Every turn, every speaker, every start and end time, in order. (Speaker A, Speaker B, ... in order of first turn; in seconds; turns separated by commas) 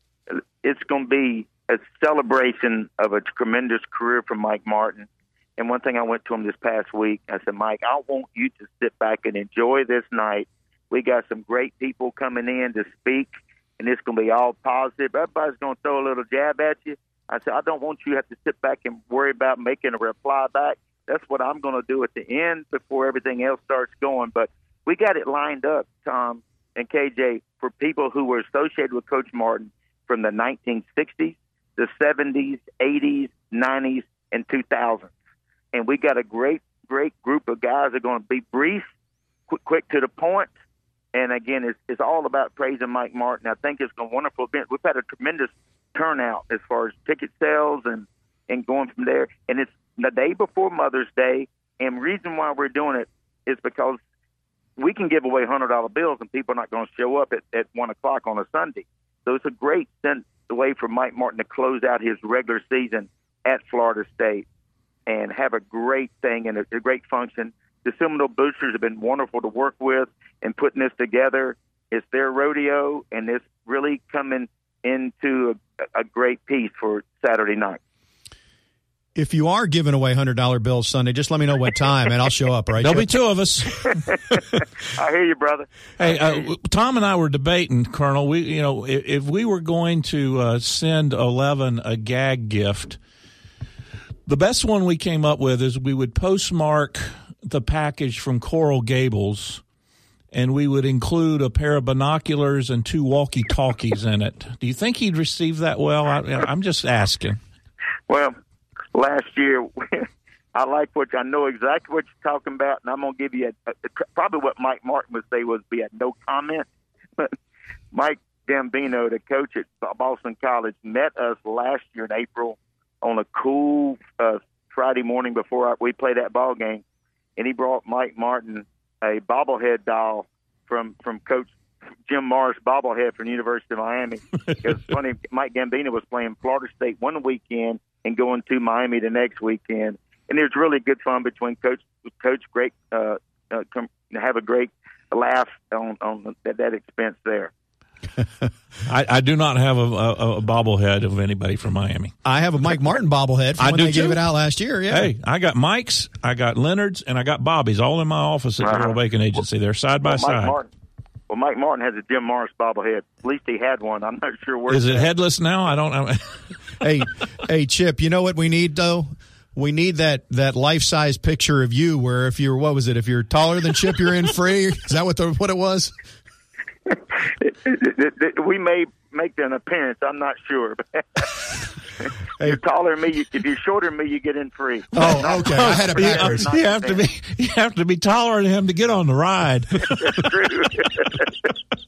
Speaker A: 0.3-35.1, Speaker A: 35.7-38.9, Speaker A: 39.5-40.5, Speaker A: 41.1-54.0, Speaker A: 54.8-64.4, Speaker A: 65.1-77.8, Speaker B: 79.1-83.1, Speaker C: 82.8-84.0, Speaker A: 84.1-84.4, Speaker A: 84.9-86.3, Speaker C: 86.0-93.0, Speaker C: 94.2-99.6, Speaker C: 100.3-107.4, Speaker A: 108.1-108.3, Speaker A: 108.9-116.7, Speaker A: 117.9-126.8, Speaker A: 127.4-131.5, Speaker A: 132.1-147.5, Speaker C: 148.8-152.1, Speaker B: 152.2-155.1, Speaker C: 153.6-154.2, Speaker C: 154.9-160.6, Speaker A: 158.6-159.0, Speaker A: 160.1-160.7, Speaker A: 161.3-165.1, Speaker C: 164.7-166.6, Speaker B: 166.8-175.9, Speaker A: 176.9-187.0, Speaker C: 184.9-190.3, Speaker B: 184.9-186.5, Speaker A: 190.0-191.3